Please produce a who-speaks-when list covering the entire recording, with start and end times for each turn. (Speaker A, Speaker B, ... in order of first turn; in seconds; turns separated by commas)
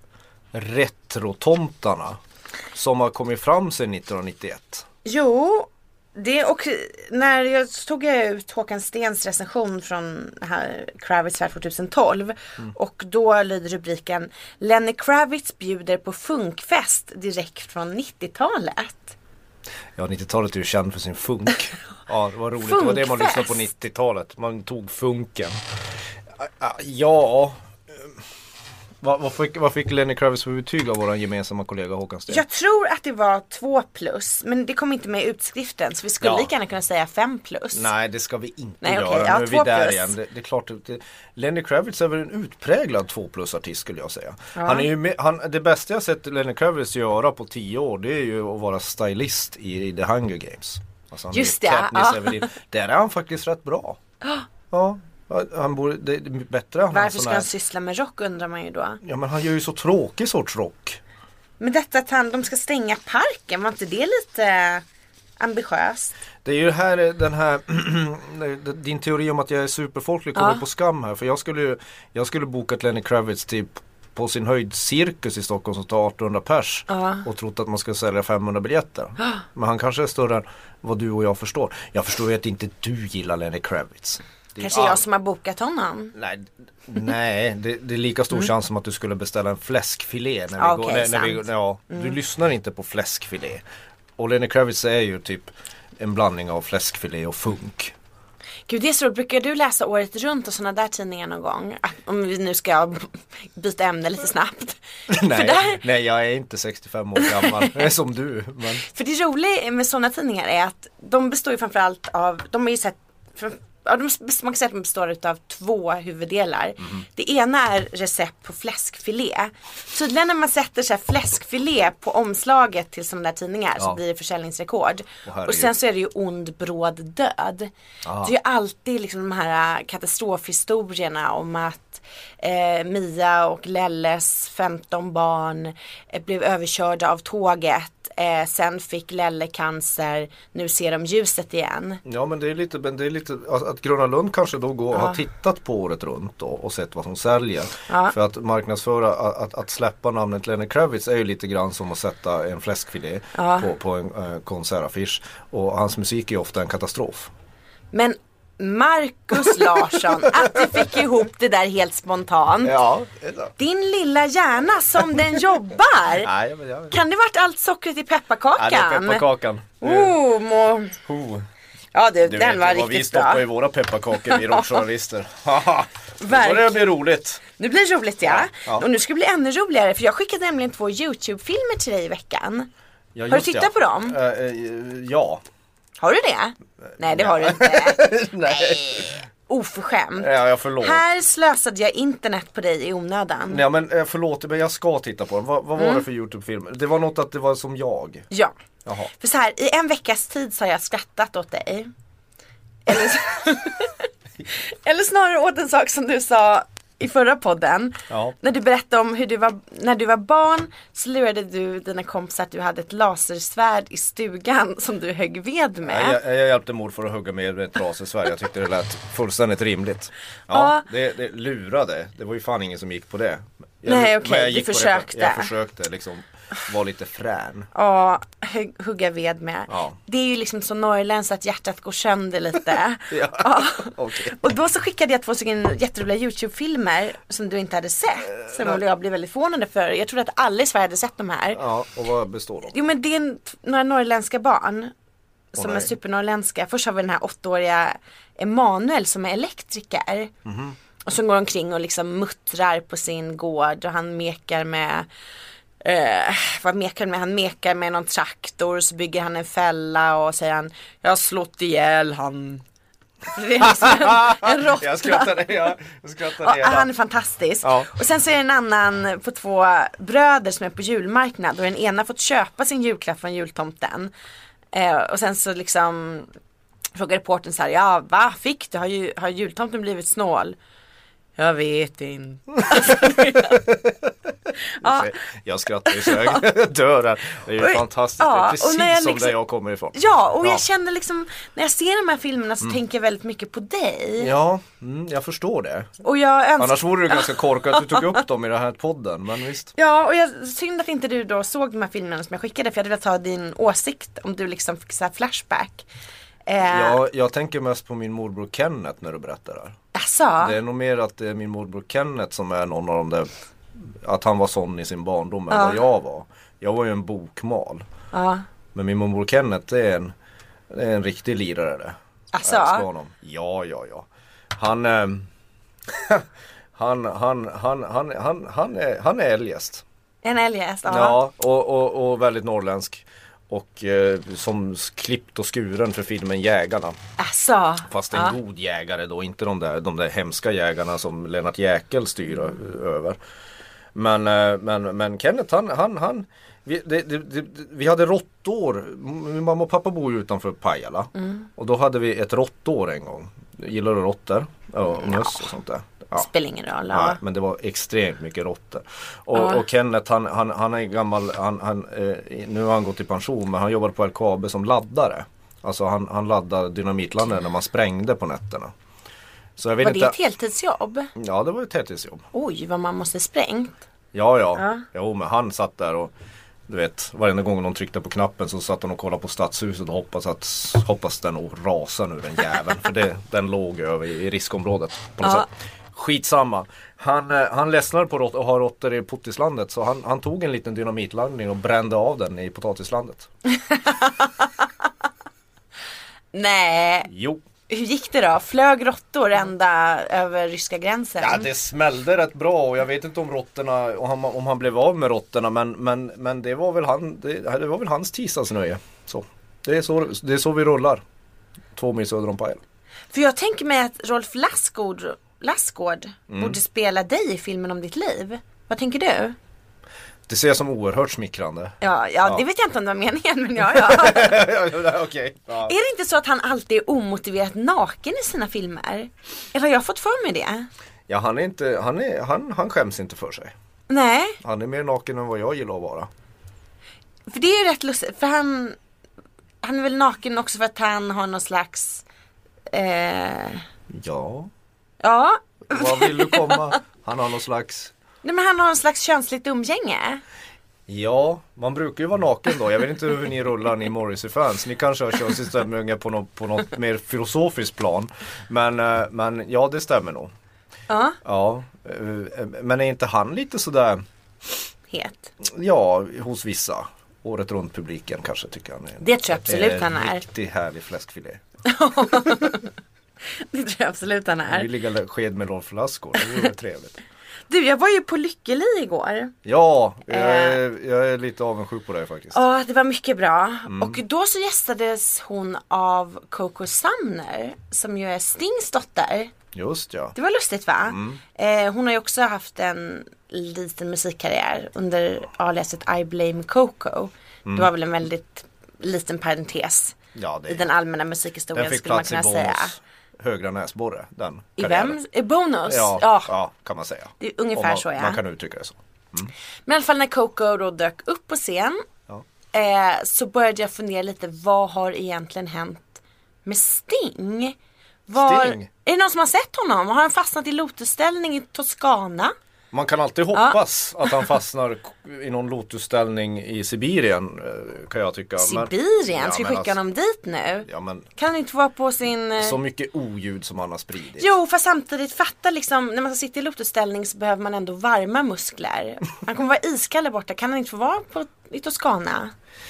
Speaker A: 0.5-2.2, Speaker A: 2.7-4.8, Speaker B: 5.0-19.1, Speaker A: 19.9-25.5, Speaker B: 22.6-23.6, Speaker A: 26.4-28.1, Speaker A: 29.0-32.4, Speaker B: 32.3-37.9, Speaker A: 36.2-36.5, Speaker A: 37.7-54.0, Speaker B: 38.8-40.1, Speaker B: 44.5-44.9, Speaker B: 51.3-52.5, Speaker A: 54.7-57.5, Speaker B: 56.9-59.0, Speaker A: 59.0-61.0, Speaker B: 61.6-64.8, Speaker B: 65.4-66.1, Speaker A: 66.4-85.0, Speaker B: 70.3-70.6, Speaker B: 76.9-77.2, Speaker B: 84.6-86.1, Speaker A: 86.1-93.6, Speaker B: 90.6-92.1, Speaker A: 94.2-97.9, Speaker B: 98.7-105.8, Speaker A: 105.1-108.8, Speaker B: 107.2-107.8, Speaker B: 108.8-142.0, Speaker A: 125.2-125.7, Speaker A: 128.0-128.3, Speaker A: 142.0-157.3, Speaker B: 147.9-148.1, Speaker B: 153.3-153.7, Speaker B: 157.9-162.8, Speaker A: 160.2-160.8, Speaker A: 162.6-163.5, Speaker B: 163.6-166.3, Speaker A: 166.2-166.9, Speaker B: 166.9-169.2, Speaker A: 168.6-170.2, Speaker B: 169.8-171.0, Speaker A: 171.0-171.4, Speaker B: 171.9-173.4, Speaker A: 172.2-177.4, Speaker B: 174.3-174.8, Speaker B: 176.2-176.8, Speaker B: 177.5-182.7, Speaker A: 178.2-178.8, Speaker A: 183.1-185.4, Speaker B: 183.3-184.2, Speaker B: 186.0-190.3, Speaker A: 187.0-189.2, Speaker A: 190.2-191.0, Speaker B: 190.8-193.6, Speaker A: 193.5-198.3, Speaker B: 195.8-196.0, Speaker A: 198.8-199.1, Speaker B: 199.1-201.9, Speaker B: 202.8-216.2, Speaker A: 208.1-208.3, Speaker A: 215.8-227.7, Speaker B: 220.5-220.8, Speaker B: 223.8-225.5, Speaker B: 227.7-241.6, Speaker A: 229.7-230.0, Speaker A: 233.1-234.4, Speaker A: 238.3-238.8, Speaker A: 241.5-242.8, Speaker B: 242.7-244.9, Speaker B: 245.5-250.3, Speaker A: 245.5-245.9, Speaker A: 250.4-250.8, Speaker B: 251.0-255.1, Speaker B: 255.8-262.6, Speaker B: 263.3-265.4, Speaker A: 263.6-266.9, Speaker B: 266.4-274.1, Speaker A: 267.6-267.9, Speaker B: 274.7-276.3, Speaker B: 276.9-280.6, Speaker B: 281.4-283.6, Speaker A: 282.8-284.1, Speaker B: 284.8-285.1, Speaker A: 284.8-290.6, Speaker B: 285.9-286.4, Speaker B: 287.6-289.4, Speaker B: 289.9-294.3, Speaker A: 294.2-295.9, Speaker B: 296.0-298.1, Speaker A: 296.6-299.7, Speaker B: 299.7-305.9, Speaker B: 306.5-307.0, Speaker A: 306.6-309.8, Speaker B: 309.9-310.6, Speaker A: 310.4-317.8, Speaker B: 315.5-315.8, Speaker B: 318.1-318.4, Speaker A: 318.7-320.1, Speaker A: 320.7-325.3, Speaker B: 322.3-322.9, Speaker A: 325.9-329.8, Speaker B: 330.2-331.2, Speaker A: 330.9-337.0, Speaker B: 337.2-338.3, Speaker A: 337.9-343.2, Speaker A: 343.9-356.2, Speaker B: 351.2-351.4, Speaker B: 355.0-355.4, Speaker B: 356.1-357.2, Speaker A: 356.9-368.7, Speaker B: 359.4-359.6, Speaker A: 369.6-370.1, Speaker B: 369.8-371.1, Speaker A: 371.1-372.2, Speaker B: 372.3-373.8, Speaker A: 374.1-376.1, Speaker B: 374.6-374.8, Speaker A: 376.7-393.3, Speaker B: 385.2-385.5, Speaker B: 393.5-394.6, Speaker B: 396.3-397.1, Speaker A: 397.1-397.4, Speaker B: 397.7-401.5, Speaker A: 401.2-411.0, Speaker A: 411.7-412.6, Speaker B: 413.1-419.4, Speaker A: 416.3-416.6, Speaker A: 420.3-422.4, Speaker B: 421.8-424.4, Speaker A: 423.7-425.7, Speaker B: 425.6-430.7, Speaker A: 431.1-433.5, Speaker B: 433.9-434.4, Speaker A: 434.4-436.1, Speaker B: 437.3-438.8, Speaker B: 439.6-442.0, Speaker B: 442.7-443.6, Speaker A: 443.9-444.5, Speaker B: 445.0-446.7, Speaker A: 445.7-447.9, Speaker B: 448.2-450.2, Speaker A: 450.9-460.3, Speaker B: 460.9-461.2, Speaker A: 461.2-464.0, Speaker B: 464.9-465.3, Speaker A: 465.4-471.4, Speaker B: 469.0-470.2, Speaker B: 471.6-472.7, Speaker B: 473.3-474.7, Speaker A: 474.5-477.0, Speaker B: 477.5-479.3, Speaker A: 479.4-482.4, Speaker B: 480.1-480.6, Speaker B: 482.3-489.3, Speaker A: 483.7-484.0, Speaker A: 489.5-490.1, Speaker B: 490.1-500.0, Speaker A: 490.9-491.2, Speaker A: 500.1-500.6, Speaker B: 500.5-502.7, Speaker A: 501.5-505.0, Speaker B: 504.6-506.3, Speaker A: 505.7-509.3, Speaker B: 507.2-508.2, Speaker B: 509.6-511.8, Speaker B: 512.5-517.5, Speaker B: 518.1-522.3, Speaker A: 518.1-518.7, Speaker A: 522.7-529.8, Speaker B: 523.3-523.6, Speaker B: 528.4-532.6, Speaker A: 530.7-531.1, Speaker A: 532.4-534.3, Speaker B: 534.2-542.3